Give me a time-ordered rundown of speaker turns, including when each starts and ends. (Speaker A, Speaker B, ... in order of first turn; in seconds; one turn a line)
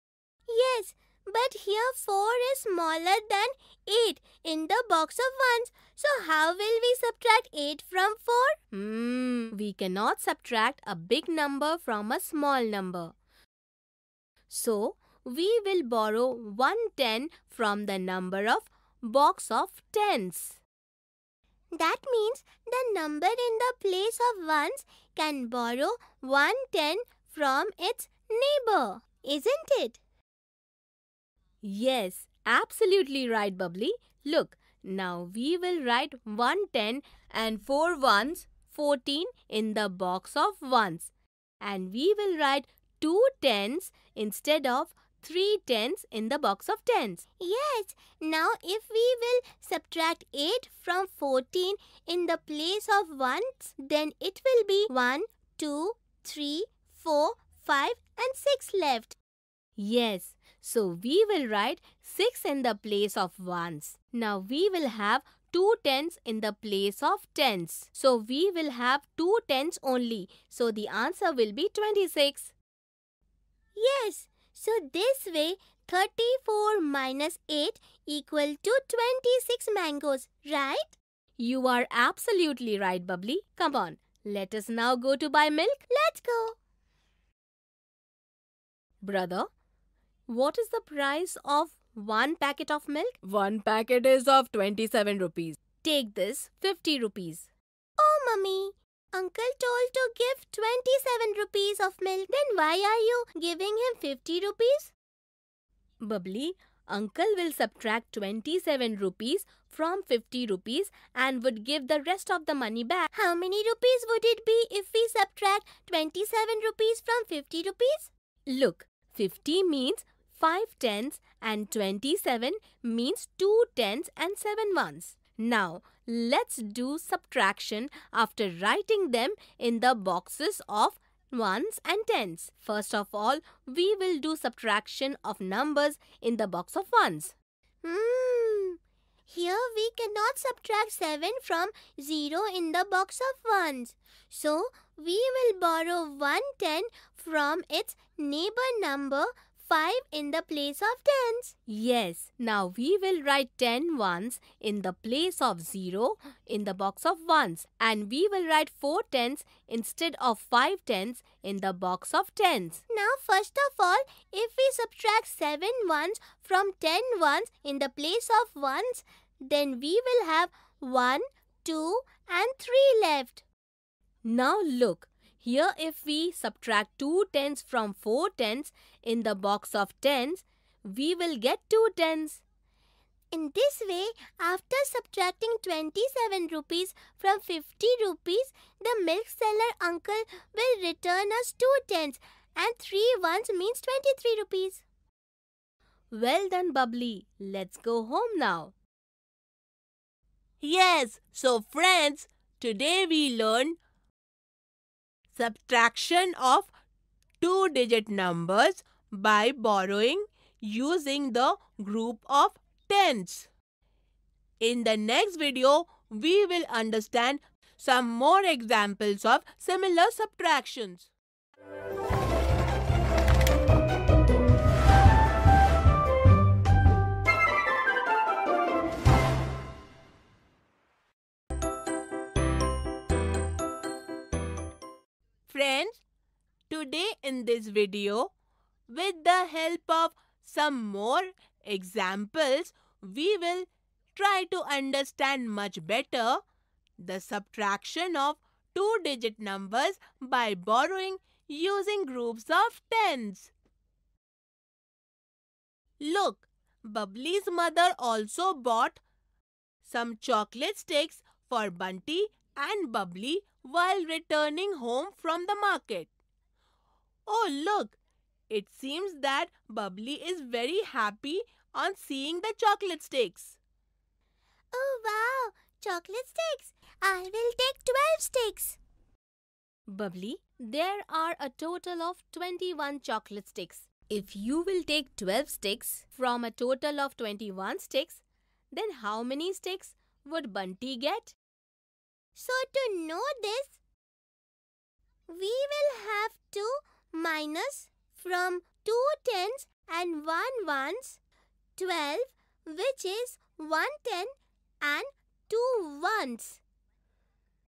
Speaker A: 0.5-8.6
Speaker B: 8.7-13.1
Speaker B: 14.5-20.6
Speaker A: 21.7-30.0
Speaker B: 31.6-47.2
Speaker A: 47.4-59.2
Speaker B: 59.8-72.5
Speaker A: 73.8-81.0
Speaker B: 81.4-85.8
Speaker A: 85.9-86.6
Speaker B: 89.0-89.5
Speaker B: 90.3-97.5
Speaker A: 98.0-104.9
Speaker B: 106.0-113.1
Speaker A: 113.1-118.1
Speaker B: 118.5-137.3
Speaker A: 137.8-151.6
Speaker B: 151.7-162.8
Speaker A: 162.9-173.4
Speaker B: 174.2-182.4
Speaker A: 183.3-194.8
Speaker B: 196.1-198.7
Speaker C: 200.6-203.8
Speaker B: 201.1-202.3
Speaker C: 205.4-206.7
Speaker C: 207.4-213.5
Speaker B: 212.5-212.9
Speaker C: 214.6-221.1
Speaker C: 235.5-235.9
Speaker C: 236.7-238.3
Speaker C: 238.9-246.4
Speaker B: 240.2-240.5
Speaker B: 242.7-243.0
Speaker B: 245.8-246.1
Speaker C: 247.0-253.5
Speaker B: 247.4-248.4
Speaker B: 250.0-250.7
Speaker B: 251.2-251.5
Speaker B: 252.8-253.5
Speaker C: 256.0-256.4
Speaker B: 256.1-259.0
Speaker C: 256.9-259.0
Speaker B: 259.9-261.5
Speaker C: 259.9-265.1
Speaker B: 262.1-266.1
Speaker B: 267.3-268.0
Speaker B: 268.5-273.6
Speaker C: 269.7-270.5
Speaker A: 274.7-278.8
Speaker B: 279.9-291.4
Speaker A: 292.4-293.8
Speaker A: 295.3-301.2
Speaker A: 301.8-306.6